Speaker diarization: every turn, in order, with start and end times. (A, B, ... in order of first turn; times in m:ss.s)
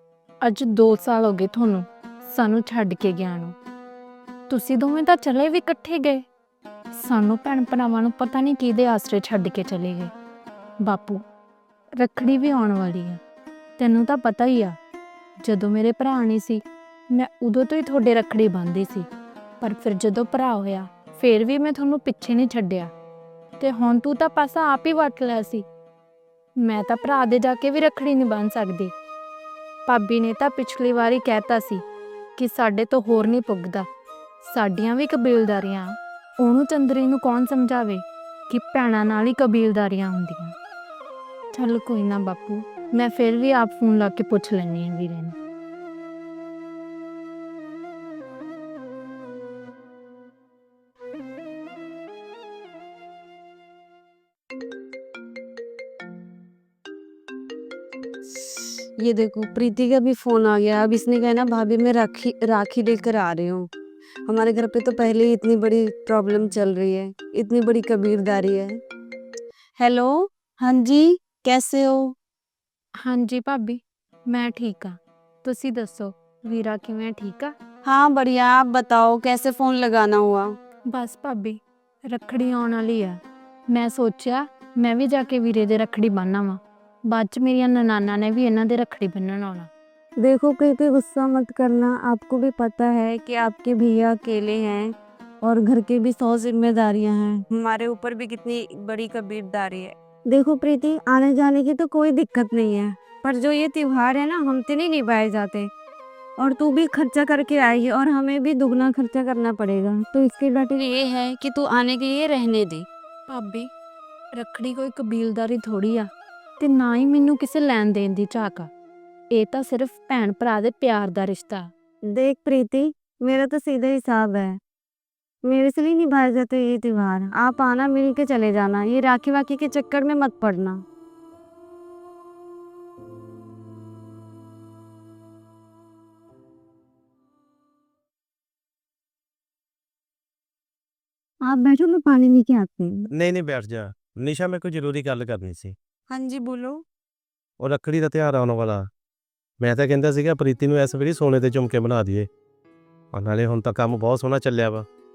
0:00.4-0:03.6 A
0:04.5-0:06.2 A
0:06.9-0:10.1 A
0:10.8-0:11.2 A
0:12.0-0:13.2 A
0:13.8-0:14.8 A
0:15.4-0:19.1 A
0:19.6-0:22.9 A
0:23.6-0:25.6 A
0:26.6-0:28.9 A
0:29.8-0:31.8 A
0:32.4-0:33.8 A
0:34.4-0:40.5 A
0:41.5-0:45.4 A
0:58.2-1:03.7 B
1:04.2-1:08.8 B
1:09.8-1:12.2 B
1:13.0-1:17.5 A
1:17.8-1:20.5 B
1:20.9-1:29.7 A
1:30.2-1:34.9 B
1:35.4-1:45.7 B
1:46.4-1:52.8 B
1:53.3-1:53.7 A
1:54.3-1:58.7 A
1:59.3-2:01.7 A
2:02.1-2:04.6 B
2:05.4-2:10.8 B
2:21.4-2:23.1 B
2:23.1-2:25.8 C
2:26.1-2:26.8 B
2:27.6-2:28.8 C
2:29.6-2:32.3 C
2:33.1-2:34.8 C